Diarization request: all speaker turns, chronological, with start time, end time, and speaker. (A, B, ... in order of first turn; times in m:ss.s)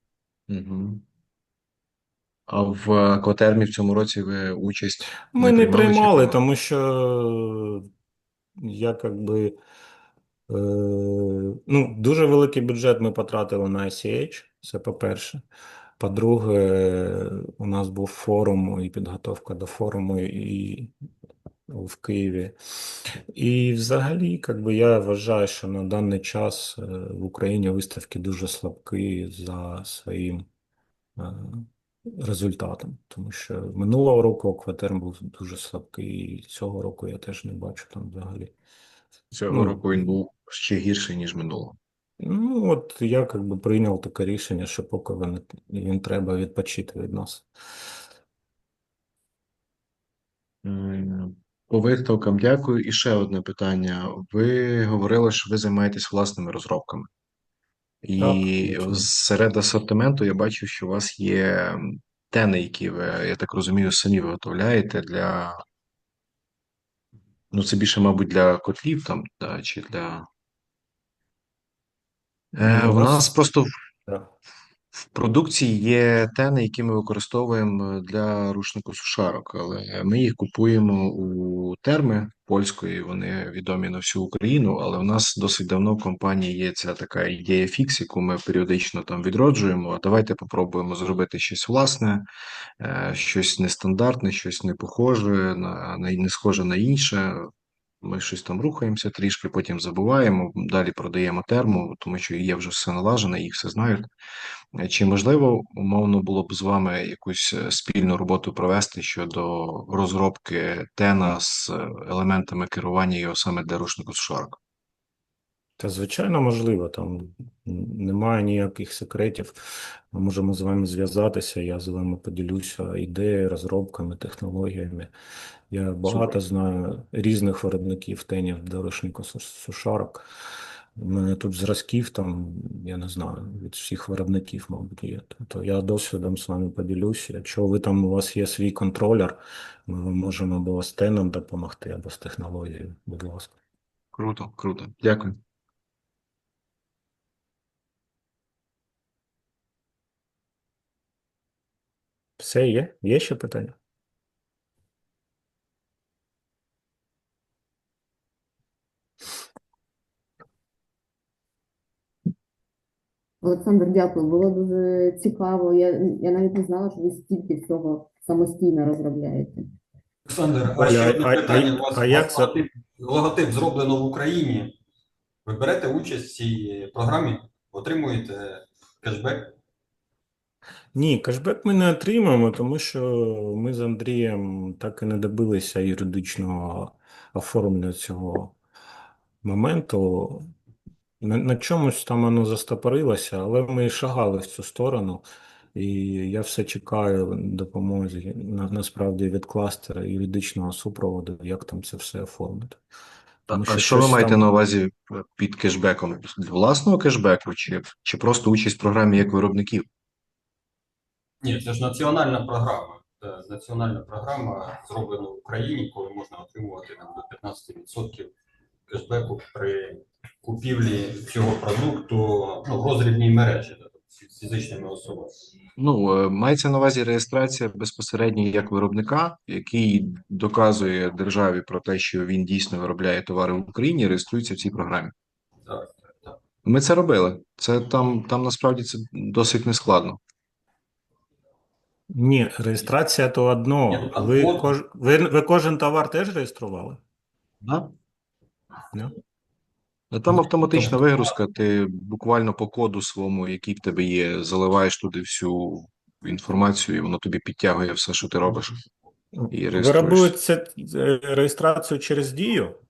0:00.5-0:01.0 A
0:02.5-0:06.4 A
0:05.3-0:07.9 B
0:08.6-0:09.6 B
0:10.5-0:15.4 B
0:16.0-0:20.9 B
0:21.7-0:30.4 B
0:31.2-0:38.5 B
0:39.3-0:41.8 A
0:39.5-0:39.8 B
0:42.2-0:47.5 B
0:50.6-0:57.1 A
0:58.0-1:05.6 A
0:58.2-0:59.1 B
1:07.5-1:10.3 A
1:12.5-1:13.7 A
1:12.6-1:13.3 B
1:15.1-1:32.3 A
1:32.8-1:37.5 A
1:38.0-1:44.1 A
1:44.8-1:54.6 A
1:55.8-2:05.1 B
2:05.7-2:10.3 B
2:11.0-2:23.6 B
2:24.1-2:25.4 A
2:32.4-2:33.8 B
2:43.4-2:49.7 C
2:50.3-2:54.7 D
2:50.8-2:52.6 B
2:55.5-2:59.5 D
3:01.0-3:08.6 B
3:09.4-3:10.5 B
3:11.2-3:22.8 B
3:23.5-3:24.5 B
3:23.5-3:29.9 A
3:31.4-3:38.3 D
3:38.9-3:45.4 D
3:45.8-3:55.1 A
3:55.6-3:56.4 D
3:56.6-4:00.2 A
4:02.1-4:07.0 B
4:03.9-4:04.7 D
4:07.6-4:07.9 A
4:10.1-4:18.9 A
4:19.4-4:22.8 B
4:19.5-4:20.3 A